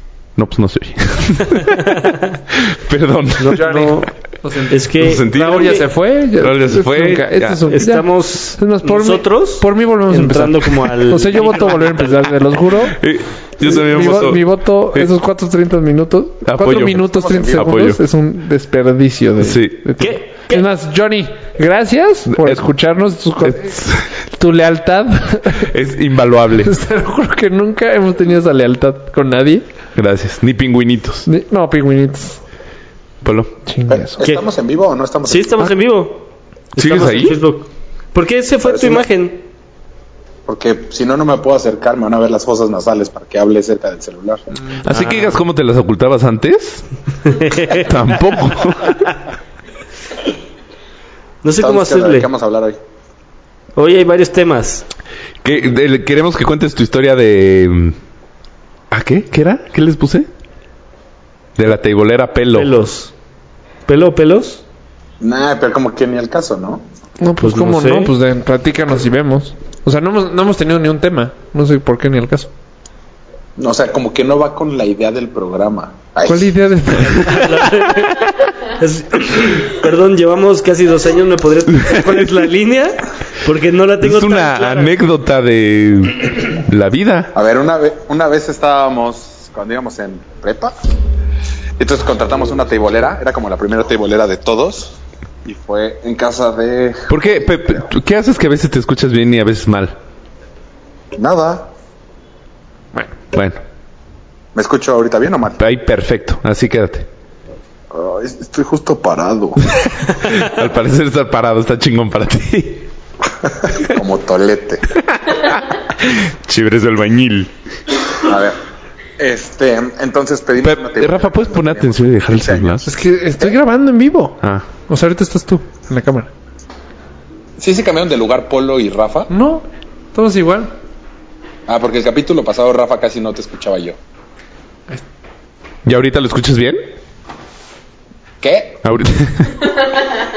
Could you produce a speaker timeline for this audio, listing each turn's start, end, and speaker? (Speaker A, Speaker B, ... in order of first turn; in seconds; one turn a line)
Speaker A: 0.3-3.9
Speaker B: 1.6-2.2
Speaker B: 3.4-4.1
Speaker C: 3.5-13.0
Speaker B: 4.7-5.8
Speaker A: 5.0-7.8
Speaker B: 7.7-12.3
Speaker A: 12.8-15.1
Speaker C: 13.6-23.8
Speaker B: 13.9-14.2
Speaker A: 16.4-18.0
Speaker D: 17.1-17.7
Speaker A: 19.4-19.8
Speaker B: 20.0-20.7
Speaker A: 22.3-22.7
Speaker A: 23.4-24.1
Speaker C: 24.3-25.7
Speaker A: 25.5-26.7
Speaker C: 26.6-29.6
Speaker A: 29.9-31.3
Speaker C: 31.2-32.4
Speaker A: 33.2-33.5
Speaker C: 33.6-34.2
Speaker D: 33.9-35.7
Speaker B: 34.2-34.5
Speaker B: 35.2-39.4
Speaker A: 36.8-37.4
Speaker D: 38.6-39.1
Speaker D: 40.5-44.4
Speaker C: 44.6-45.4
Speaker A: 44.8-46.9
Speaker B: 47.2-47.9
Speaker A: 47.7-49.2
Speaker B: 51.4-52.3
Speaker D: 51.6-52.8
Speaker B: 53.8-54.9
Speaker A: 55.4-58.0
Speaker A: 58.9-60.3
Speaker A: 61.5-62.7
Speaker B: 62.5-63.1
Speaker B: 63.9-64.6
Speaker D: 65.2-66.8
Speaker C: 67.2-72.5
Speaker B: 67.4-68.1
Speaker D: 73.6-76.5
Speaker C: 76.2-77.6
Speaker B: 77.3-85.0
Speaker A: 81.9-82.2
Speaker A: 84.0-87.3
Speaker D: 87.3-90.7
Speaker D: 91.8-97.8
Speaker A: 97.1-99.9
Speaker D: 101.1-101.7
Speaker A: 103.3-103.6
Speaker D: 104.5-105.6
Speaker A: 105.6-107.1
Speaker D: 107.9-109.6
Speaker A: 109.7-112.9
Speaker D: 113.4-114.9
Speaker A: 115.1-117.5
Speaker D: 118.2-118.6
Speaker D: 119.2-123.6
Speaker A: 120.6-122.9
Speaker C: 122.8-126.3
Speaker A: 124.4-124.7
Speaker D: 127.6-129.3
Speaker C: 129.3-130.7
Speaker D: 131.7-134.0
Speaker A: 135.8-136.8
Speaker D: 138.4-138.8
Speaker A: 138.8-139.7